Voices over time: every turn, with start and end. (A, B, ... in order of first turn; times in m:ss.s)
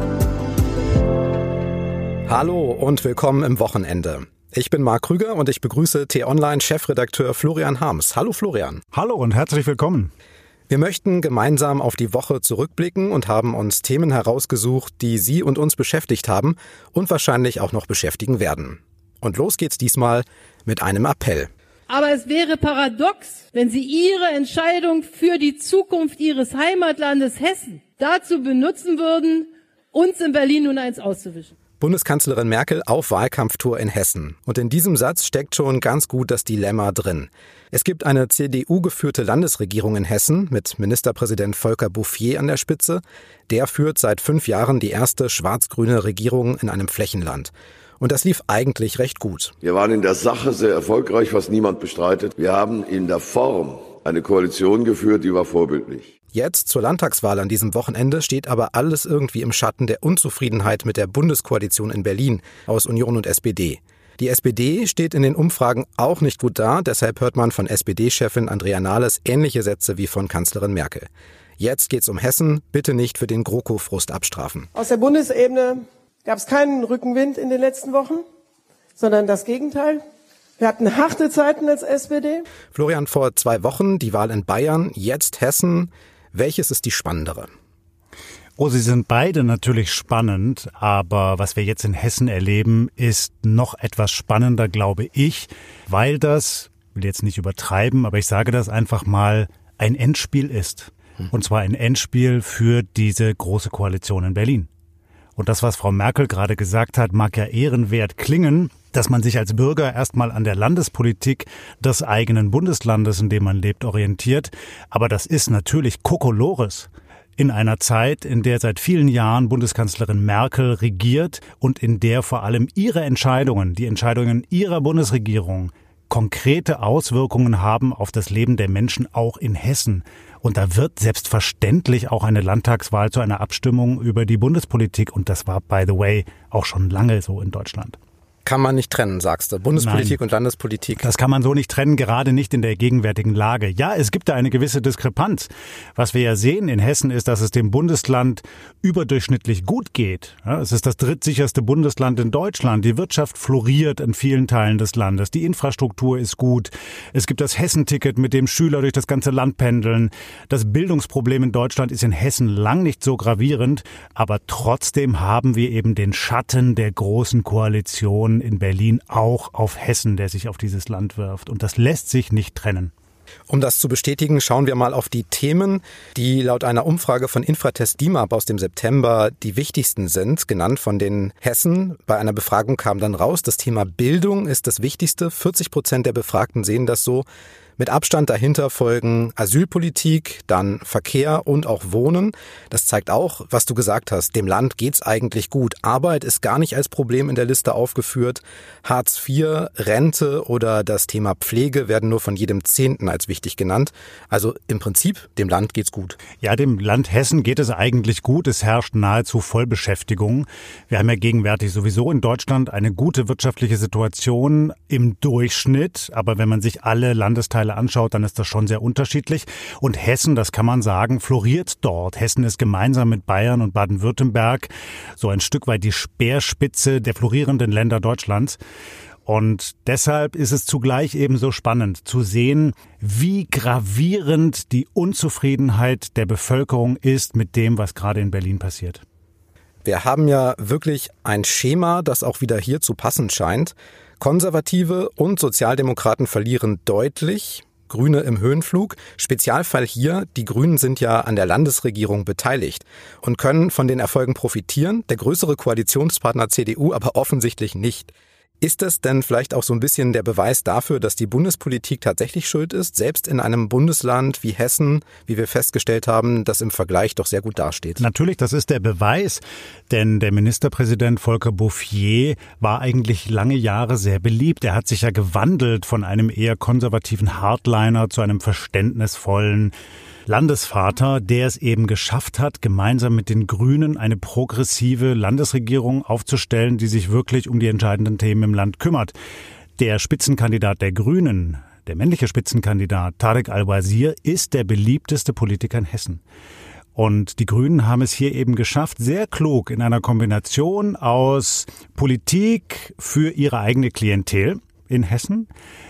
0:02.3-0:08.8 A
0:08.9-0:10.1 B
0:10.7-0:21.5 A
0:21.9-0:31.5 C
0:31.8-0:49.5 A
0:49.6-0:56.1 D
0:56.3-1:11.1 A
1:11.6-1:14.7 A
1:14.7-1:18.2 E
1:19.0-1:20.0 E
1:20.6-1:22.4 E
1:22.7-1:27.5 A
1:28.6-1:44.7 B
1:45.4-2:18.0 B
2:18.4-2:21.0 A
2:19.8-2:20.2 B
2:21.0-2:52.9 B
2:53.5-3:07.2 A
3:07.8-3:26.2 A
3:26.4-3:48.6 B
3:49.2-3:59.0 B
3:59.8-4:28.0 A
4:28.0-4:39.7 B
4:40.3-4:49.1 B
4:49.8-4:56.2 B
4:56.9-5:05.5 B